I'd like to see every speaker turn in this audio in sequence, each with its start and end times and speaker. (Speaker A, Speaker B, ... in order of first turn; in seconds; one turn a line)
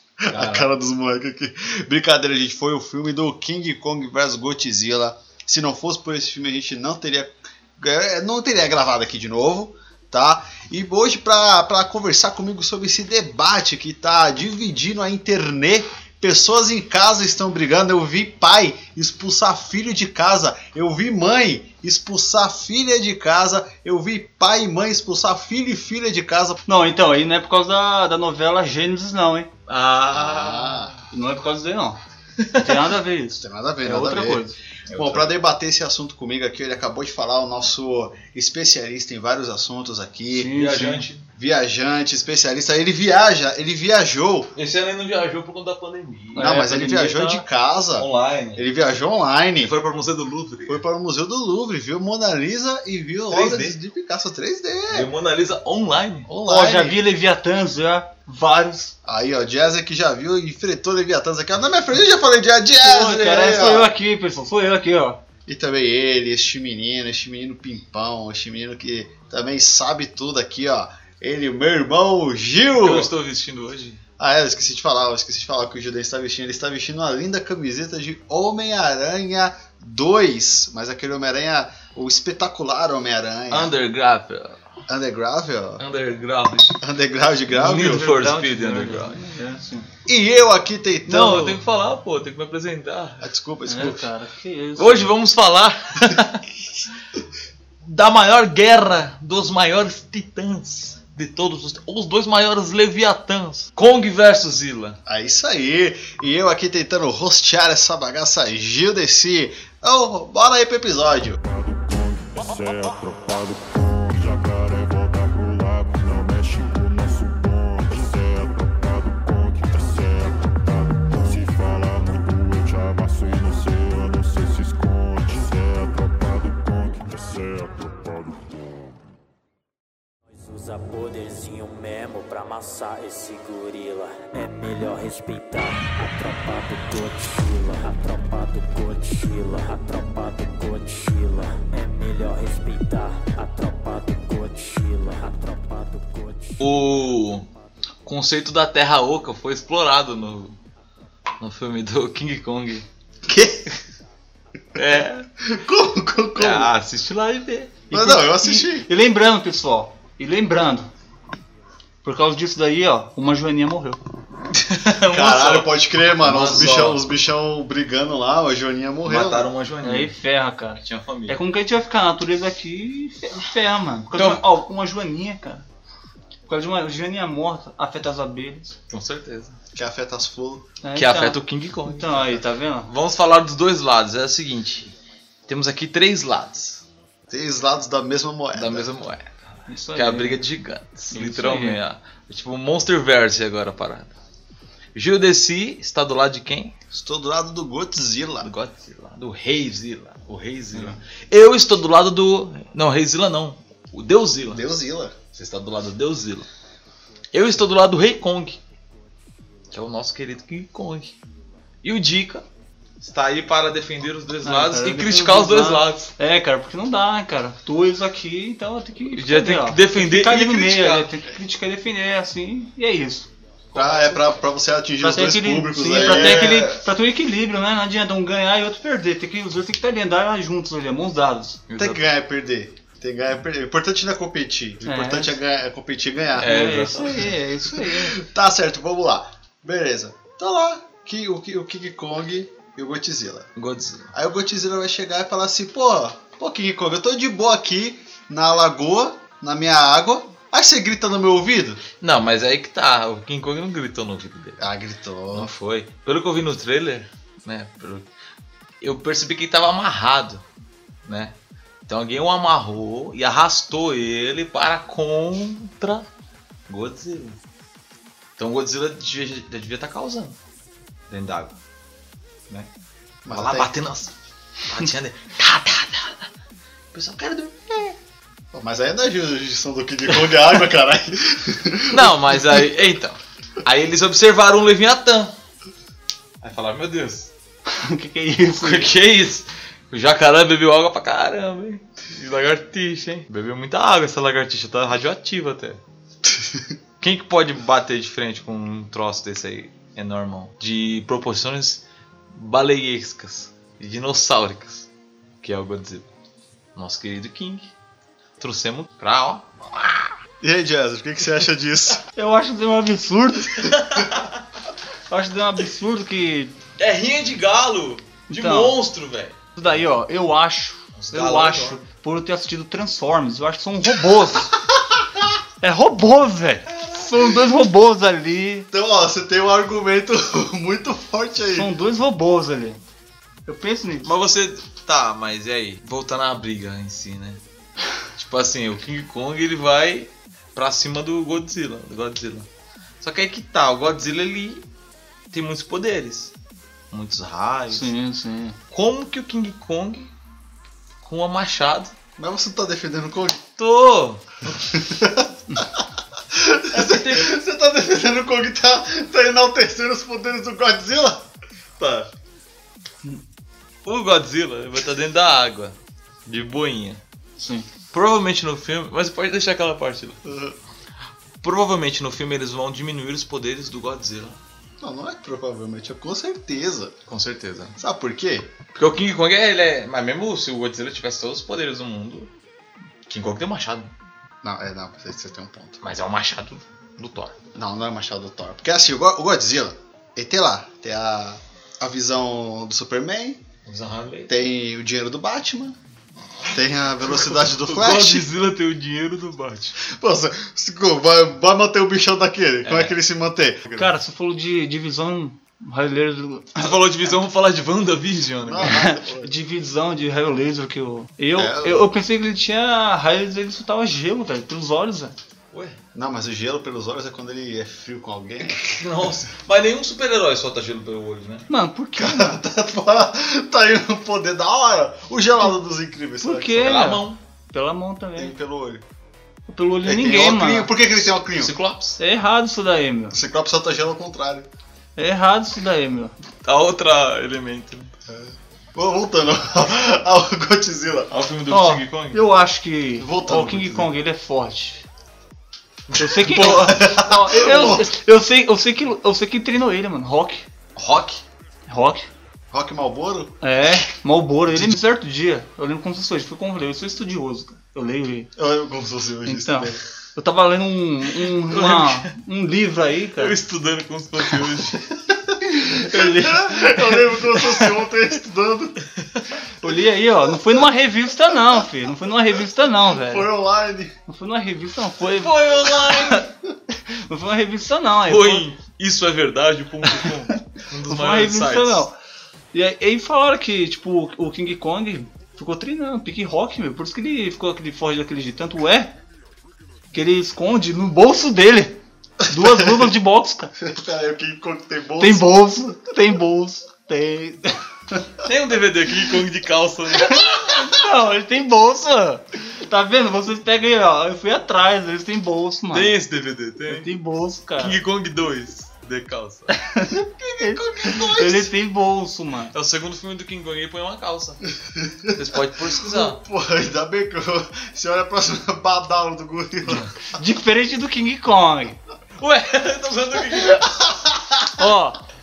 Speaker A: 0.2-26.6
Speaker B: 0.3-0.7
Speaker C: 26.7-29.5
Speaker B: 29.7-31.0
Speaker A: 30.1-31.0
Speaker C: 31.1-32.0
Speaker B: 32.4-32.7
Speaker C: 32.5-34.6
Speaker A: 33.4-40.5
Speaker B: 34.9-35.4
Speaker C: 40.3-41.1
Speaker B: 40.5-41.2
Speaker A: 41.4-44.5
Speaker B: 44.5-46.4
Speaker C: 46.3-47.4
Speaker A: 46.4-49.7
Speaker B: 48.0-48.6
Speaker B: 49.6-50.8
Speaker A: 50.6-55.1
Speaker B: 53.3-53.8
Speaker B: 54.9-56.3
Speaker A: 56.3-57.0
Speaker C: 56.5-58.9
Speaker A: 59.0-63.9
Speaker C: 62.8-65.2
Speaker A: 65.5-73.1
Speaker B: 72.8-74.0
Speaker A: 74.2-83.7
Speaker B: 83.5-84.6
Speaker A: 84.9-85.8
Speaker B: 85.8-86.8
Speaker A: 86.8-88.1
Speaker B: 87.5-89.2
Speaker C: 87.6-89.9
Speaker A: 90.1-91.6
Speaker B: 91.1-93.2
Speaker A: 93.2-94.1
Speaker C: 93.7-95.1
Speaker B: 94.8-96.4
Speaker B: 97.8-105.0
Speaker A: 105.0-111.4
Speaker D: 111.4-129.0
Speaker E: 130.3-146.6
Speaker B: 146.6-147.5
Speaker B: 148.1-150.6
Speaker B: 151.4-152.9
Speaker A: 153.2-153.8
Speaker B: 154.7-155.3
Speaker A: 155.4-156.7
Speaker B: 156.3-157.8
Speaker C: 157.9-160.9
Speaker A: 157.9-158.9
Speaker C: 162.0-164.0
Speaker B: 164.5-167.0
Speaker A: 165.1-169.5
Speaker B: 169.0-170.1
Speaker C: 169.8-175.7
Speaker B: 170.8-171.4
Speaker B: 174.1-174.4
Speaker C: 176.5-178.7
Speaker B: 178.9-179.6
Speaker A: 179.7-180.6
Speaker C: 180.8-182.9
Speaker B: 180.9-184.9
Speaker B: 185.5-186.8
Speaker A: 187.3-188.9
Speaker B: 188.5-189.3
Speaker C: 189.7-190.4
Speaker B: 189.9-194.1
Speaker C: 191.1-191.8
Speaker B: 194.9-196.7
Speaker A: 196.9-198.5
Speaker B: 198.4-204.6
Speaker A: 204.5-205.1
Speaker B: 205.3-206.5
Speaker B: 207.3-208.6
Speaker B: 209.7-211.1
Speaker B: 211.8-212.4
Speaker B: 213.0-216.1
Speaker C: 214.4-223.3
Speaker B: 219.2-221.2
Speaker B: 223.7-224.3
Speaker A: 223.7-226.7
Speaker C: 225.0-231.6
Speaker B: 225.9-226.8
Speaker B: 231.7-232.1
Speaker A: 231.8-243.5
Speaker C: 234.8-235.4
Speaker B: 236.4-237.3
Speaker C: 236.4-238.2
Speaker B: 243.6-244.1
Speaker A: 244.1-251.8
Speaker B: 252.0-254.6
Speaker A: 254.6-255.5
Speaker B: 255.3-258.1
Speaker B: 258.8-260.4
Speaker B: 261.1-261.3
Speaker B: 261.9-266.1
Speaker B: 266.7-267.4
Speaker B: 268.4-270.4
Speaker B: 271.1-271.6
Speaker A: 273.2-273.7
Speaker B: 273.3-274.1
Speaker B: 274.6-276.3
Speaker B: 276.9-277.9
Speaker A: 278.5-282.7
Speaker B: 281.9-285.3
Speaker B: 286.4-287.3
Speaker C: 287.7-288.9
Speaker B: 288.6-295.8
Speaker A: 296.2-296.7
Speaker B: 297.0-304.9
Speaker B: 305.4-306.1
Speaker B: 306.8-307.7
Speaker B: 308.4-310.0
Speaker A: 310.4-312.0
Speaker C: 312.1-313.7
Speaker B: 313.5-314.4
Speaker C: 315.1-316.6
Speaker B: 316.8-319.4
Speaker C: 318.3-318.8
Speaker C: 319.6-324.6
Speaker B: 320.9-321.8
Speaker A: 324.4-325.4
Speaker C: 325.6-328.7
Speaker B: 326.7-327.3
Speaker A: 328.7-331.7
Speaker C: 331.4-332.8
Speaker C: 333.5-334.1
Speaker B: 334.0-337.4
Speaker B: 338.1-342.5
Speaker B: 343.0-344.6
Speaker B: 345.3-346.3
Speaker B: 346.9-347.9
Speaker C: 347.7-348.6
Speaker B: 348.7-350.1
Speaker B: 351.0-351.9
Speaker A: 352.2-353.4
Speaker B: 353.6-354.6
Speaker A: 354.7-355.8
Speaker A: 356.3-361.3
Speaker B: 356.7-357.4
Speaker B: 361.8-362.1
Speaker B: 363.9-365.8
Speaker B: 366.3-367.0
Speaker C: 367.4-367.7
Speaker B: 367.9-370.2
Speaker A: 370.2-370.6
Speaker B: 371.4-374.4
Speaker A: 374.8-376.9
Speaker B: 377.1-377.8
Speaker A: 377.8-378.5
Speaker B: 378.7-382.3
Speaker B: 383.1-383.9
Speaker A: 384.4-385.8
Speaker B: 385.8-387.4
Speaker A: 387.5-393.4
Speaker B: 393.6-394.3
Speaker A: 394.3-395.8
Speaker A: 396.5-398.3
Speaker B: 397.2-399.8
Speaker A: 399.8-403.9
Speaker B: 402.6-402.9
Speaker C: 403.7-406.8
Speaker B: 406.6-408.8
Speaker A: 408.4-409.3
Speaker C: 408.6-415.1
Speaker A: 411.3-411.9
Speaker B: 415.5-415.8
Speaker A: 415.9-418.9
Speaker B: 418.7-421.5
Speaker C: 421.5-422.4
Speaker A: 421.9-426.8
Speaker C: 426.2-428.3
Speaker B: 426.6-427.2
Speaker A: 428.1-428.8
Speaker C: 429.5-430.7
Speaker A: 429.8-431.5
Speaker B: 431.0-432.0
Speaker C: 432.0-433.1
Speaker A: 433.1-434.5
Speaker C: 434.9-436.1
Speaker B: 436.4-437.9
Speaker A: 438.1-441.1
Speaker B: 441.1-442.2
Speaker C: 441.5-444.8
Speaker A: 443.0-443.9
Speaker B: 445.9-446.8
Speaker C: 445.9-450.5
Speaker A: 446.3-447.9
Speaker B: 450.8-451.2
Speaker C: 451.7-452.1
Speaker A: 452.5-453.3
Speaker C: 453.4-458.3
Speaker A: 458.4-459.8
Speaker C: 459.2-463.4
Speaker B: 461.5-462.1
Speaker B: 463.2-464.9
Speaker A: 465.1-468.9
Speaker C: 465.4-467.8
Speaker B: 469.0-469.3
Speaker C: 469.6-473.3
Speaker A: 470.3-470.6
Speaker A: 472.7-473.9
Speaker C: 474.1-476.3
Speaker B: 475.0-476.3
Speaker C: 476.9-478.4
Speaker B: 478.1-481.9
Speaker C: 480.8-481.9
Speaker C: 482.5-488.9
Speaker C: 489.9-493.5
Speaker A: 492.3-492.8
Speaker A: 493.6-495.2
Speaker C: 495.0-497.6
Speaker B: 498.2-500.5
Speaker C: 499.9-505.9
Speaker B: 505.7-506.9
Speaker C: 506.7-507.8
Speaker B: 507.6-509.6
Speaker C: 509.5-512.5
Speaker B: 510.2-511.5
Speaker B: 512.5-514.4
Speaker A: 514.6-519.9
Speaker B: 515.1-516.2
Speaker B: 519.6-519.9
Speaker C: 520.1-521.8
Speaker B: 522.2-524.0
Speaker A: 523.9-524.3
Speaker C: 524.6-525.0